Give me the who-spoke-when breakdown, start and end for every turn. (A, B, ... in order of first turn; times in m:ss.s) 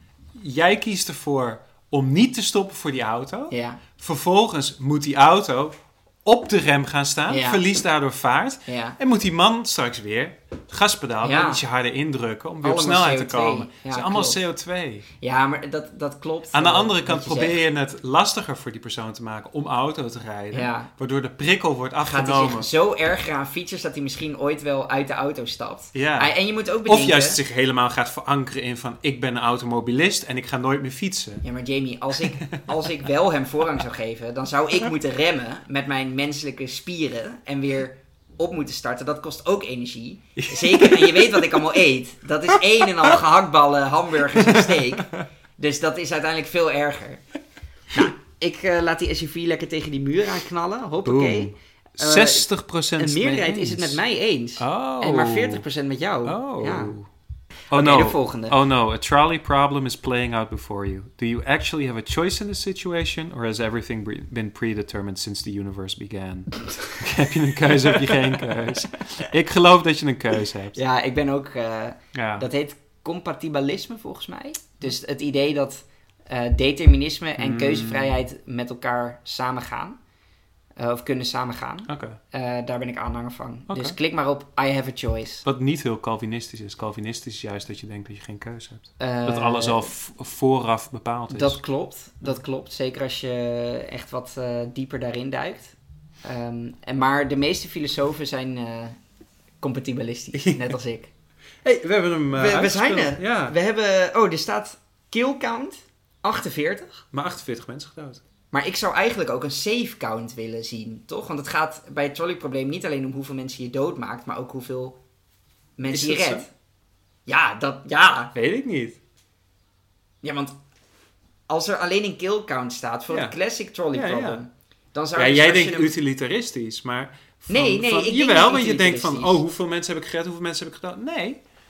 0:00.4-0:15.1 A
0:03.5-0:03.8 B
0:07.3-0:07.6 B
0:08.7-0:09.0 B
0:11.2-0:11.6 B
0:12.6-0:14.4 B
0:15.2-0:17.6 B
0:16.5-0:22.7 A
0:20.5-0:20.9 B
0:22.0-0:27.4 B
0:25.9-0:31.4 A
0:31.4-0:47.2 B
0:32.4-0:32.7 A
0:40.4-0:41.8 A
0:42.5-0:43.2 A
0:44.3-0:45.3 A
0:47.9-0:57.0 B
0:51.0-0:54.0 A
0:54.6-0:55.6 A
0:56.3-0:57.1 A
0:57.7-0:58.6 B
0:57.7-1:10.8 A
1:10.8-1:20.0 B
1:12.1-1:12.5 A
1:17.4-1:18.2 A
1:20.8-1:25.4 B
1:21.9-1:22.2 A
1:23.7-1:24.0 A
1:25.4-1:31.6 A
1:29.0-1:29.9 B
1:31.3-1:39.0 B
1:39.6-1:41.1 B
1:40.4-1:40.6 A
1:41.6-1:43.6 A
1:42.3-1:47.0 B
1:47.1-1:48.2 A
1:48.5-1:55.0 B
1:55.8-1:56.5 B
1:55.9-1:56.5 A
1:57.3-1:58.3 B
1:58.4-1:59.0 A
2:00.2-2:00.6 B
2:01.5-2:05.9 B
2:03.1-2:03.4 A
2:03.9-2:04.4 A
2:05.2-2:11.4 A
2:07.5-2:09.4 B